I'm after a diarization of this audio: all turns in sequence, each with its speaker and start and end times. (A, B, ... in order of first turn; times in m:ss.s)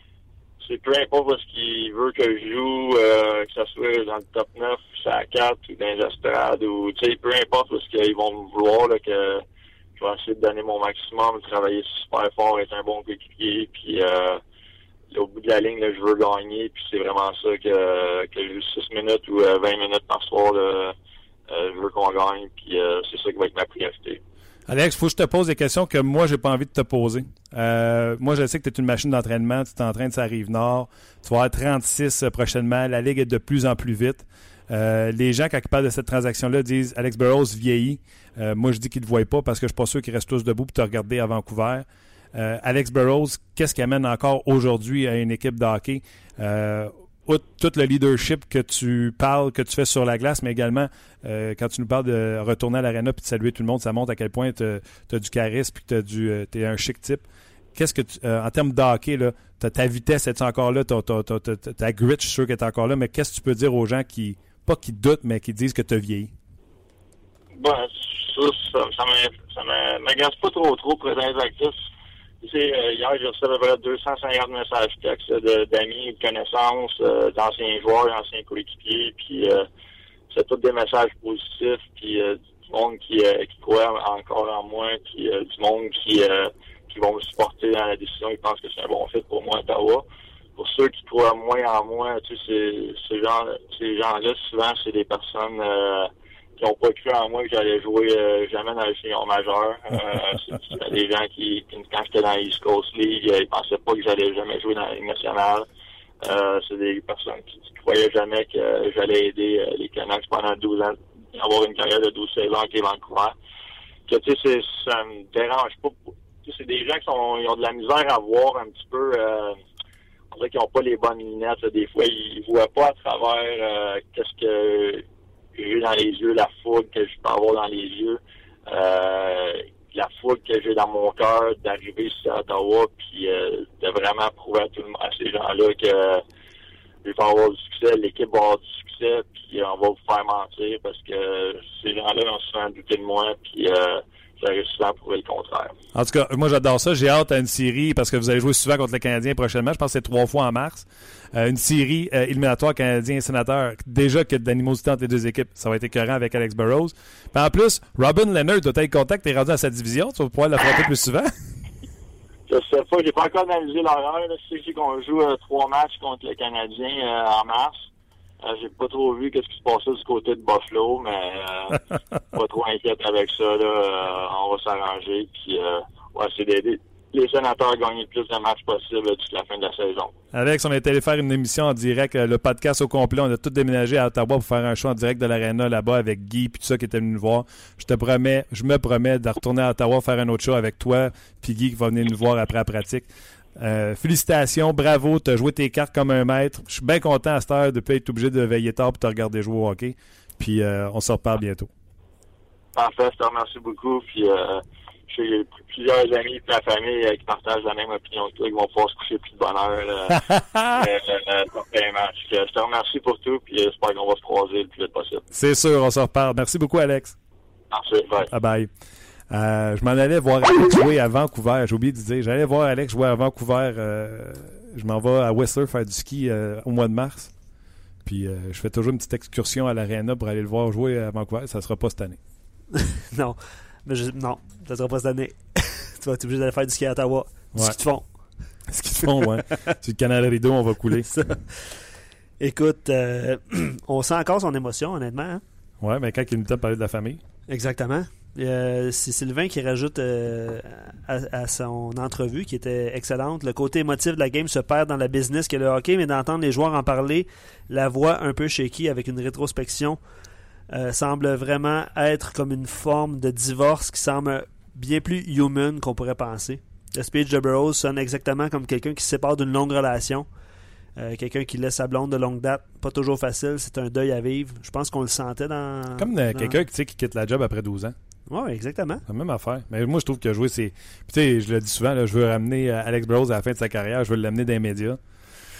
0:00.6-0:09.4 A
0:10.0-0:14.4 A
0:15.1-0:20.9 A
0:21.5-0:24.2 A
0:24.7-1:06.3 B
1:07.5-1:11.8 A
1:12.4-1:19.7 A
1:20.3-1:30.0 A
1:30.6-1:45.7 A
1:46.2-1:53.3 A
1:54.1-1:59.6 A
2:00.3-2:05.0 A
2:05.6-2:16.2 A
2:17.0-2:25.7 A
2:25.9-2:41.3 B
2:42.5-2:47.9 A
2:48.4-2:51.8 A
2:52.3-3:00.1 A
3:00.3-3:21.7 B
3:22.7-3:35.2 A
3:30.1-3:30.9 B
3:35.3-3:37.2 B
3:37.7-3:38.3 A
3:38.3-3:38.7 B
3:39.3-3:47.3 B
3:48.0-3:52.2 B
3:52.7-3:58.1 C
3:58.7-4:01.3 B
4:01.1-4:01.7 C
4:02.4-4:05.4 C
4:05.8-4:07.2 B
4:07.5-4:20.0 C
4:20.7-4:30.2 C
4:31.0-4:36.6 C
4:36.0-4:37.9 B
4:38.3-4:39.0 C
4:39.1-4:45.0 B